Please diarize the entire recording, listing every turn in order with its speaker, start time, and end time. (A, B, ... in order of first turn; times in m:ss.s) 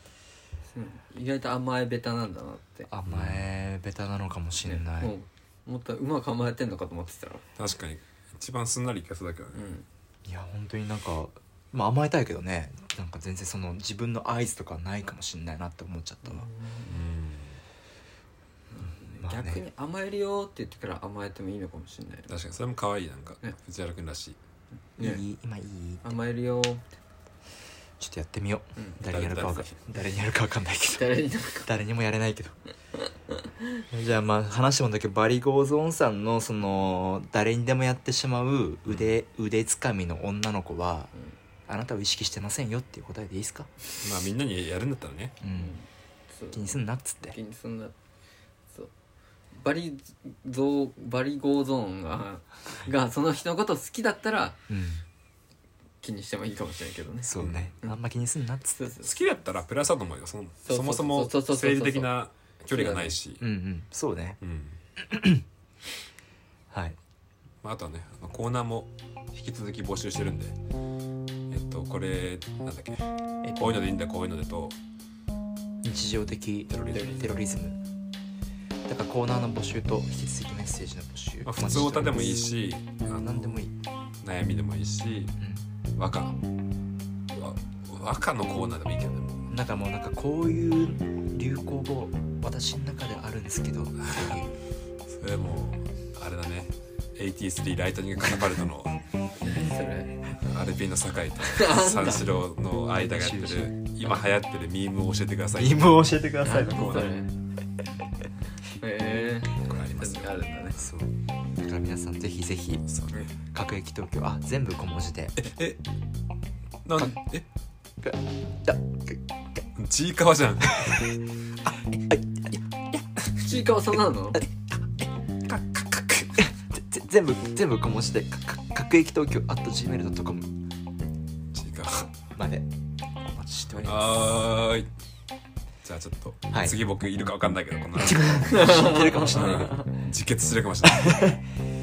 0:00.7-0:02.9 A
0:02.9-0:05.1 B
0:03.1-0:03.5 C
0:04.6-0:07.4 A
0:07.6-0:09.6 C
0:09.5-0:09.9 A
0:10.2-0:16.4 B
0:16.2-0:17.0 A
0:16.9-0:17.6 C
0:18.7-0:22.3 A
0:19.2-0:19.6 B
0:22.3-0:24.4 C
0:25.0-0:25.2 A
0:25.0-0:26.0 B
0:26.0-0:26.8 A
0:28.0-0:31.0 B
0:29.0-0:29.7 C
0:31.0-0:31.7 A
0:31.6-0:32.6 B
0:33.3-0:33.8 A
0:33.9-0:41.1 B
0:38.9-0:39.1 C
0:41.7-0:43.7 B
0:44.0-0:45.4 C
0:45.4-0:45.7 B
0:45.5-0:47.9 A
0:46.5-0:47.4 B
0:49.6-0:54.6 A
0:54.7-0:55.0 B
0:56.0-0:58.0 A
0:57.2-0:58.8 B
0:57.4-0:57.7 C
0:58.8-0:59.2 A
0:59.0-1:03.4 C
1:00.7-1:02.1 A
1:02.7-1:03.2 A
1:03.4-1:04.4 B
1:04.4-1:04.8 C
1:05.0-1:05.4 B
1:06.7-1:07.0 B
1:07.6-1:10.6 C
1:11.5-1:14.7 C
1:13.4-1:13.9 B
1:15.8-1:17.8 B
1:16.7-1:17.4 C
1:18.9-1:22.4 B
1:21.4-1:23.6 C
1:23.1-1:23.7 B
1:24.2-1:25.4 C
1:26.0-1:26.4 C
1:27.4-1:29.5 C
1:29.5-1:34.5 B
1:34.0-1:34.4 C
1:35.1-1:39.0 C
1:39.4-1:40.2 A
1:40.4-1:45.9 C
1:41.5-1:42.3 A
1:43.1-1:43.7 B
1:45.6-1:47.1 B
1:46.4-1:47.3 A
1:48.8-1:50.8 A
1:49.5-1:50.4 C
1:50.8-1:55.4 B
1:52.9-1:53.3 C
1:55.4-1:55.8 C
1:56.8-1:57.4 C
1:58.0-1:59.2 B
1:59.8-2:01.1 C
2:01.7-2:02.6 B
2:03.4-2:04.4 A
2:05.5-2:06.5 C
2:06.4-2:10.6 B
2:11.5-2:12.1 C
2:12.4-2:12.7 B
2:13.2-2:14.2 B
2:13.7-2:14.2 A
2:13.8-2:14.9 C
2:15.8-2:21.4 C
2:16.5-2:16.8 B
2:18.0-2:19.8 B
2:18.5-2:19.8 A
2:20.8-2:21.4 B